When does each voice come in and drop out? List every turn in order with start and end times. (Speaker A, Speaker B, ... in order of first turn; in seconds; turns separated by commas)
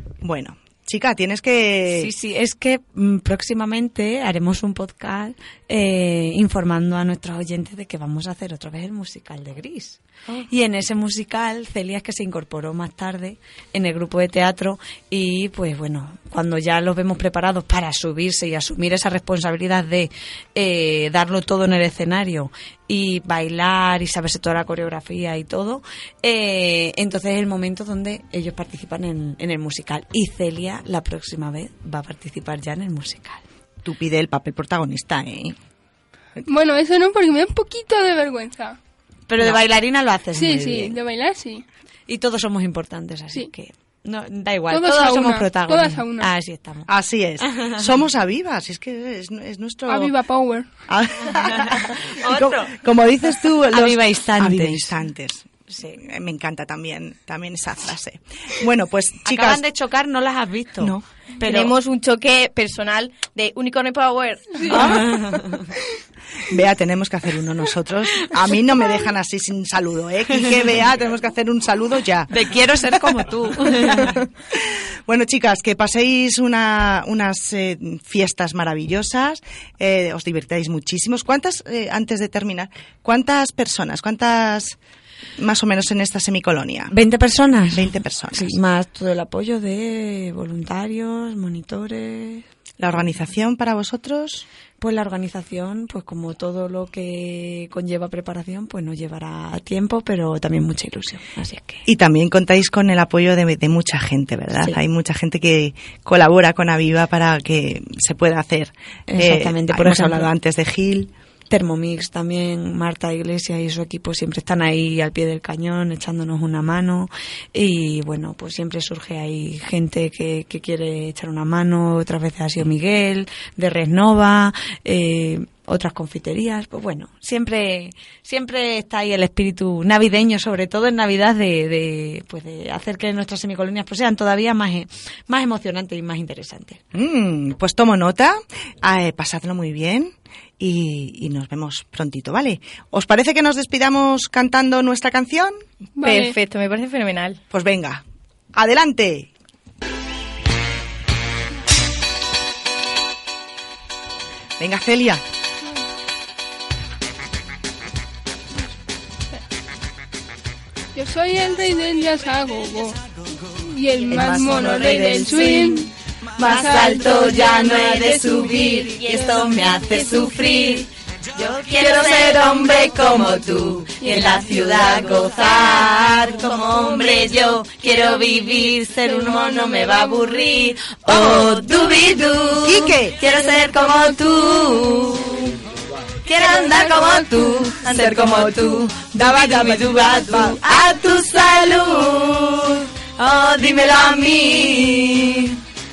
Speaker A: 0.2-2.1, Speaker B: 1.9-33.4, Speaker A: 33.8-35.5, Speaker C: 36.5-38.8, Speaker B: 39.3-41.0, Speaker C: 40.3-41.6, Speaker B: 42.1-46.9, Speaker C: 44.7-46.3, Speaker A: 46.9-50.1, Speaker B: 47.4-47.7, Speaker C: 49.9-50.7, Speaker A: 50.9-59.6, Speaker B: 52.2-52.7, Speaker B: 53.7-54.9, Speaker B: 55.7-56.0, Speaker B: 59.2-61.7, Speaker D: 61.4-64.8, Speaker A: 64.7-65.3, Speaker B: 64.7-65.7, Speaker A: 66.5-72.3, Speaker B: 72.3-74.2, Speaker A: 73.6-84.8, Speaker A: 85.4-87.0, Speaker B: 86.9-92.5, Speaker A: 87.7-88.5, Speaker A: 92.8-94.5, Speaker B: 94.8-101.8, Speaker A: 101.8-111.1, Speaker B: 104.5-104.8, Speaker B: 109.1-110.3, Speaker B: 111.5-136.8, Speaker A: 136.9-145.6, Speaker C: 146.0-146.3, Speaker D: 146.0-147.4, Speaker A: 147.5-148.0, Speaker A: 148.5-149.3, Speaker A: 154.6-155.2, Speaker C: 160.9-163.0, Speaker C: 163.6-165.9, Speaker A: 164.1-164.6, Speaker E: 164.4-185.5, Speaker C: 166.4-167.8, Speaker A: 182.6-183.2, Speaker E: 186.2-195.6, Speaker C: 186.6-186.9